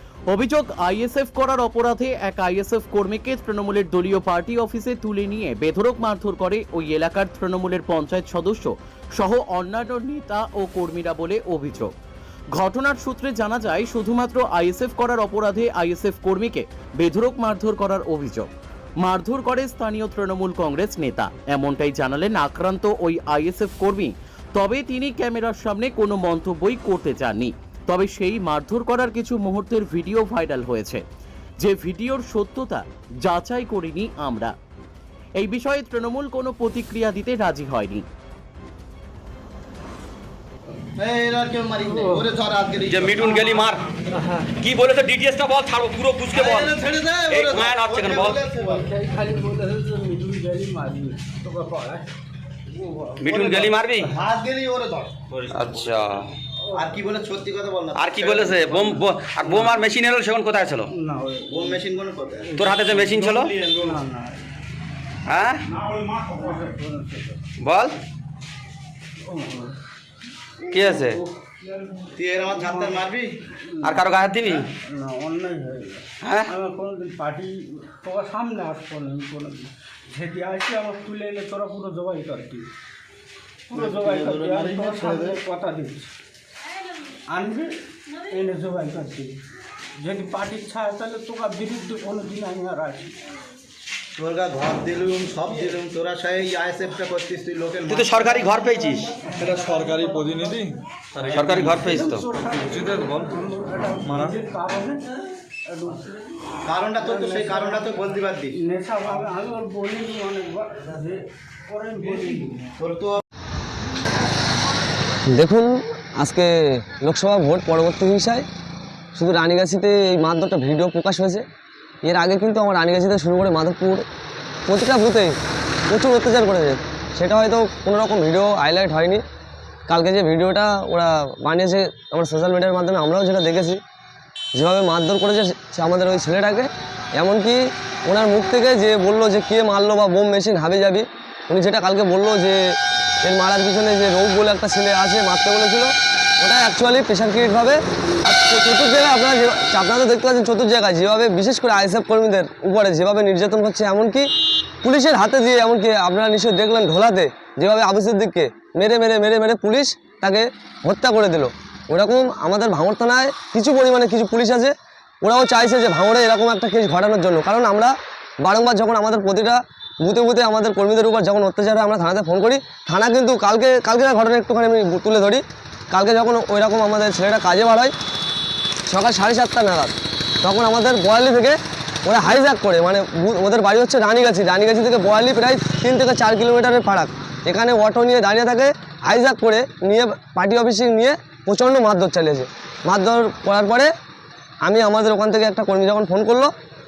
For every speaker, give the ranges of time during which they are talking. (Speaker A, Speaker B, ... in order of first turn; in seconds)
Speaker A: 0.3-11.9, 12.5-31.0, 31.6-34.5, 35.3-38.1
Speaker B: 41.0-43.2, 46.4-52.0, 52.7-55.3, 56.7-59.7, 60.9-64.5, 65.9-67.4, 69.2-69.7, 71.9-73.9, 74.8-82.7, 83.7-86.1, 87.3-87.8, 88.3-89.4, 90.0-93.1, 95.5-97.6, 101.5-105.1, 105.7-112.9
Speaker C: 41.8-43.5, 46.6-47.9, 48.5-48.9, 54.3-54.8, 56.7-58.5, 61.5-64.0, 72.3-73.2, 83.7-85.4, 94.2-98.4, 106.7-108.5, 112.8-113.2
Speaker D: 42.8-48.4, 53.2-54.1, 55.5-56.3, 57.9-60.9, 62.5-63.5, 65.2-65.7, 67.6-68.0, 70.7-71.2, 73.8-74.7, 76.2-76.5, 97.9-99.1, 101.3-102.3
Speaker E: 99.2-101.9, 102.6-103.4, 104.0-104.4
Speaker F: 115.3-118.5, 119.1-121.4, 122.0-124.0, 124.7-125.3, 125.9-129.2, 129.9-133.8, 134.6-154.3, 154.8-177.9, 178.9-193.9, 194.6-196.5